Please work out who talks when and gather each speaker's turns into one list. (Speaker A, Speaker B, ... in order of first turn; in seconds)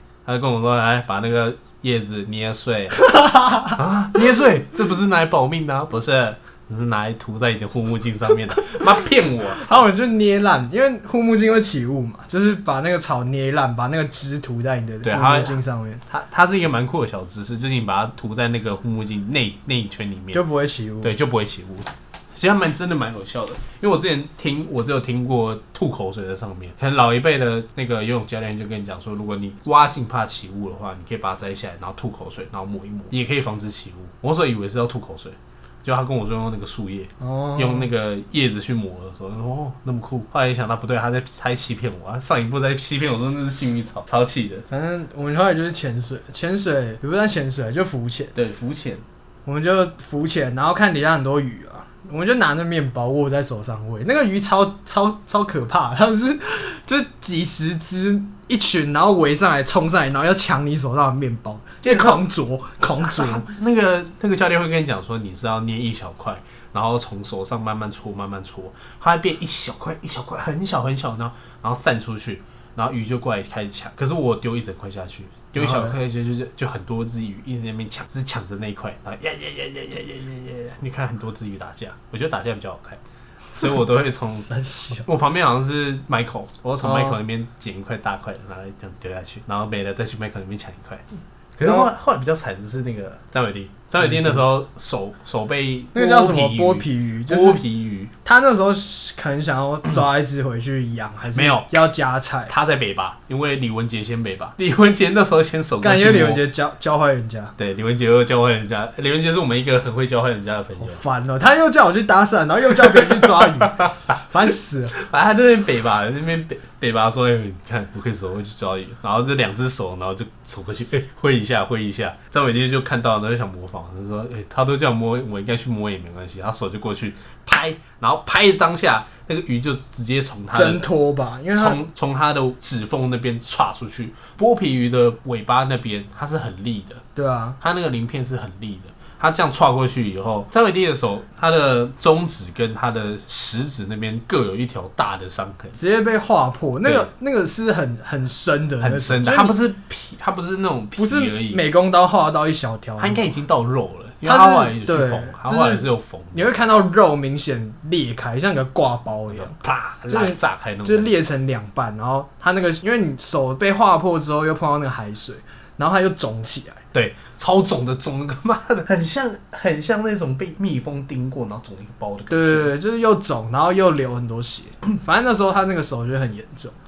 Speaker A: 0.2-3.0, 3.6-9.8, 15.0-20.4, 21.0-44.6, 48.3-49.0, 61.8-62.2, 63.0-83.0, 83.5-91.0, 91.6-98.1, 101.3-101.7, 102.5-106.4, 107.6-111.0, 112.8-114.2, 114.9-130.9, 131.5-137.0, 137.6-145.8, 148.8-151.6, 153.0-156.5, 159.3-161.1, 166.9-172.7
Speaker B: 3.1-3.7, 9.6-16.0, 20.3-21.1, 37.2-37.9, 44.7-48.3, 49.5-63.4, 75.5-76.0, 84.4-85.0, 86.8-87.2, 94.0-94.4, 95.9-97.6, 98.2-102.5, 105.8-107.5, 110.8-115.0, 130.5-131.8, 137.1-137.6, 145.7-149.6, 150.9-153.3, 154.2-159.5, 160.1-166.8, 172.3-176.7